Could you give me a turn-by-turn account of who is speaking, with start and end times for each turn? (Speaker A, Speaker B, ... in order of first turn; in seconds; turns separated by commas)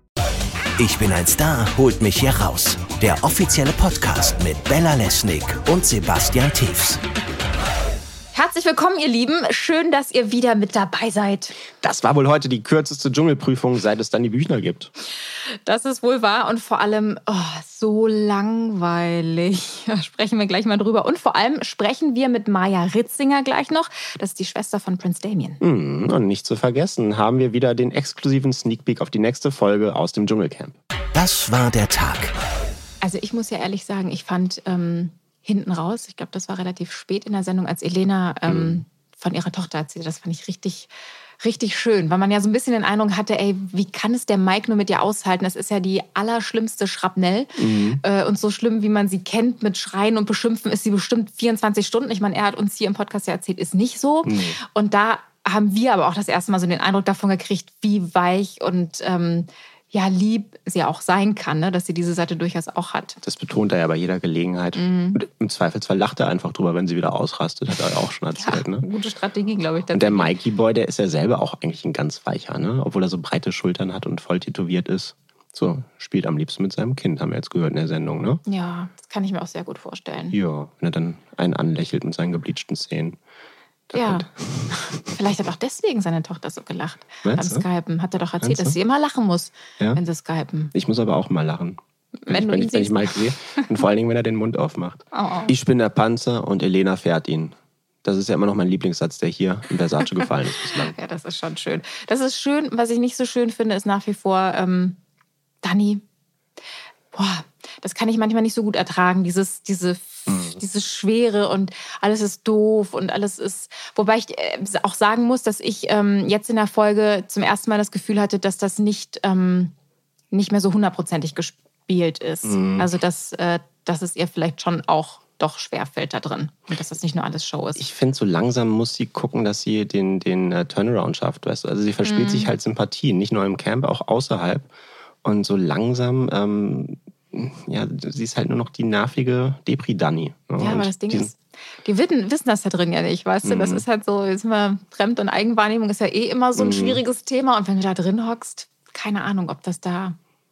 Speaker A: 0.8-7.0, Speaker B: 8.3-11.5, Speaker C: 11.8-14.9, Speaker B: 15.7-25.6, Speaker C: 25.6-30.8, Speaker A: 31.1-32.3, Speaker B: 33.0-40.9, Speaker C: 38.5-38.8, Speaker B: 41.4-63.2, Speaker C: 47.6-48.0, Speaker C: 54.2-54.6, Speaker C: 63.2-68.8, Speaker B: 64.7-65.2, Speaker B: 68.3-70.3, Speaker C: 69.9-78.4, Speaker B: 78.5-80.3, Speaker C: 80.3-83.2, Speaker C: 83.9-85.1, Speaker B: 83.9-90.7, Speaker C: 87.2-87.6, Speaker C: 88.4-88.8, Speaker C: 90.7-101.0, Speaker B: 92.2-93.8, Speaker B: 95.1-95.5, Speaker B: 100.6-105.0, Speaker B: 105.6-106.0, Speaker B: 107.1-119.7, Speaker C: 110.3-110.6, Speaker B: 120.3-127.8, Speaker C: 122.4-122.9, Speaker C: 127.8-134.7, Speaker B: 132.0-132.5, Speaker C: 135.2-141.3, Speaker B: 140.6-150.2, Speaker C: 143.4-143.8, Speaker C: 146.6-147.0